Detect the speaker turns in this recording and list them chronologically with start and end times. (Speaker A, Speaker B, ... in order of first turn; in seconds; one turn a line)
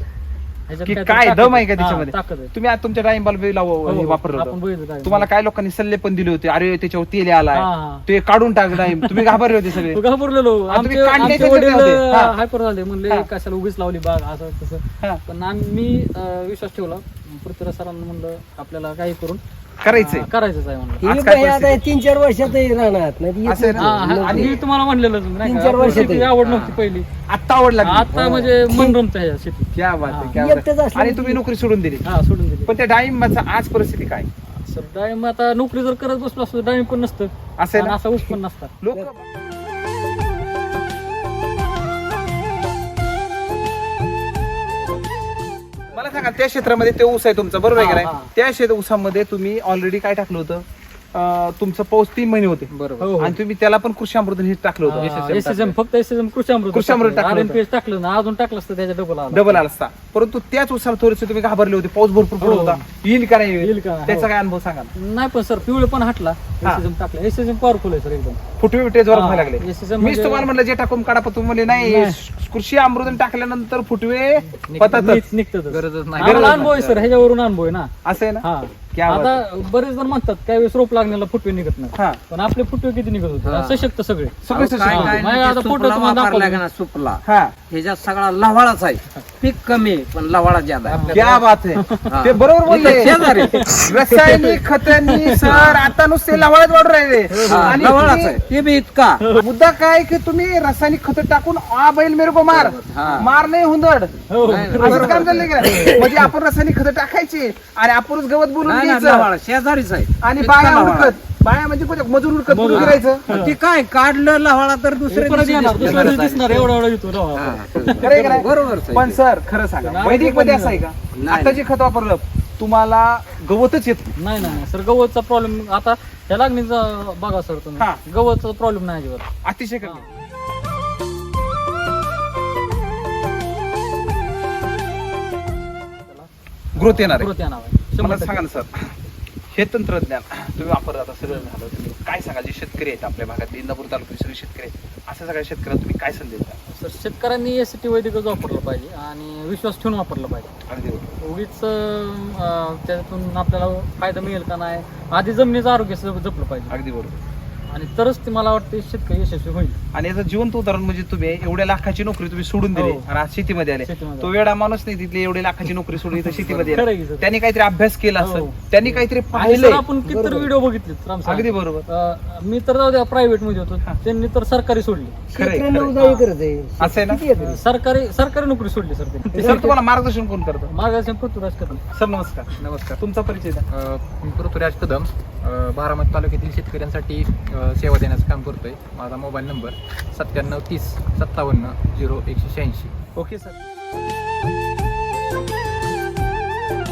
Speaker A: 0.7-2.5
Speaker B: 0.8-10.0
Speaker A: 3.9-5.3
Speaker A: 7.5-8.1
Speaker A: 8.8-21.1
Speaker B: 10.7-12.3
Speaker B: 19.8-20.3
Speaker B: 21.0-21.8
Speaker C: 21.0-24.6
Speaker B: 23.4-24.6
Speaker A: 23.8-27.1
Speaker C: 25.4-26.3
Speaker D: 26.2-26.8
Speaker B: 27.3-28.1
Speaker A: 27.8-30.3
Speaker C: 28.1-28.9
Speaker B: 29.7-32.0
Speaker C: 30.3-31.4
Speaker A: 32.0-32.7
Speaker B: 32.6-34.3
Speaker A: 34.5-38.7
Speaker B: 37.6-39.2
Speaker B: 45.9-52.7
Speaker A: 47.7-48.3
Speaker E: 52.7-53.1
Speaker A: 53.0-53.4
Speaker B: 53.2-55.6
Speaker A: 54.8-59.6
Speaker E: 55.0-55.7
Speaker B: 56.7-57.6
Speaker B: 59.3-64.9
Speaker A: 62.4-62.8
Speaker A: 63.6-64.3
Speaker A: 65.0-68.4
Speaker B: 68.6-75.2
Speaker A: 69.1-70.5
Speaker A: 71.7-72.2
Speaker E: 74.7-75.0
Speaker A: 74.8-86.6
Speaker E: 75.7-77.0
Speaker B: 76.2-76.8
Speaker B: 78.0-79.4
Speaker B: 82.0-82.2
Speaker D: 83.4-83.9
Speaker B: 84.4-85.2
Speaker D: 84.5-91.4
Speaker B: 87.2-87.5
Speaker A: 90.9-91.2
Speaker B: 91.1-98.4
Speaker A: 91.8-92.1
Speaker D: 92.0-94.0
Speaker A: 92.7-95.8
Speaker D: 95.4-95.9
Speaker A: 97.3-98.0
Speaker D: 97.5-99.2
Speaker A: 99.2-99.5
Speaker B: 99.3-109.3
Speaker D: 102.5-103.3
Speaker A: 104.3-106.0
Speaker D: 104.4-106.1
Speaker D: 108.6-111.2
Speaker B: 110.2-113.2
Speaker A: 112.5-113.6
Speaker D: 112.7-116.7
Speaker A: 115.1-118.5
Speaker B: 115.8-116.2
Speaker D: 117.3-119.2
Speaker B: 118.0-124.2
Speaker A: 119.8-120.8
Speaker D: 121.1-121.7
Speaker A: 124.2-129.3
Speaker B: 129.4-130.1
Speaker B: 136.7-137.3
Speaker A: 136.8-138.4
Speaker B: 138.0-138.9
Speaker B: 139.5-146.6
Speaker A: 146.7-150.5
Speaker B: 150.7-151.1
Speaker A: 151.2-156.7
Speaker B: 156.7-157.2
Speaker A: 157.7-159.8
Speaker B: 159.9-169.8
Speaker A: 162.7-163.0
Speaker A: 163.8-164.3
Speaker A: 166.7-167.3
Speaker A: 168.2-175.2
Speaker C: 169.4-170.5
Speaker B: 171.2-171.8
Speaker C: 175.3-177.6
Speaker B: 175.3-176.0
Speaker A: 175.9-176.2
Speaker B: 176.8-177.2
Speaker A: 177.4-179.8
Speaker C: 179.3-179.6
Speaker B: 179.3-180.7
Speaker A: 180.7-181.8
Speaker B: 181.9-183.6
Speaker E: 182.6-183.0
Speaker E: 183.7-192.9
Speaker B: 193.2-193.6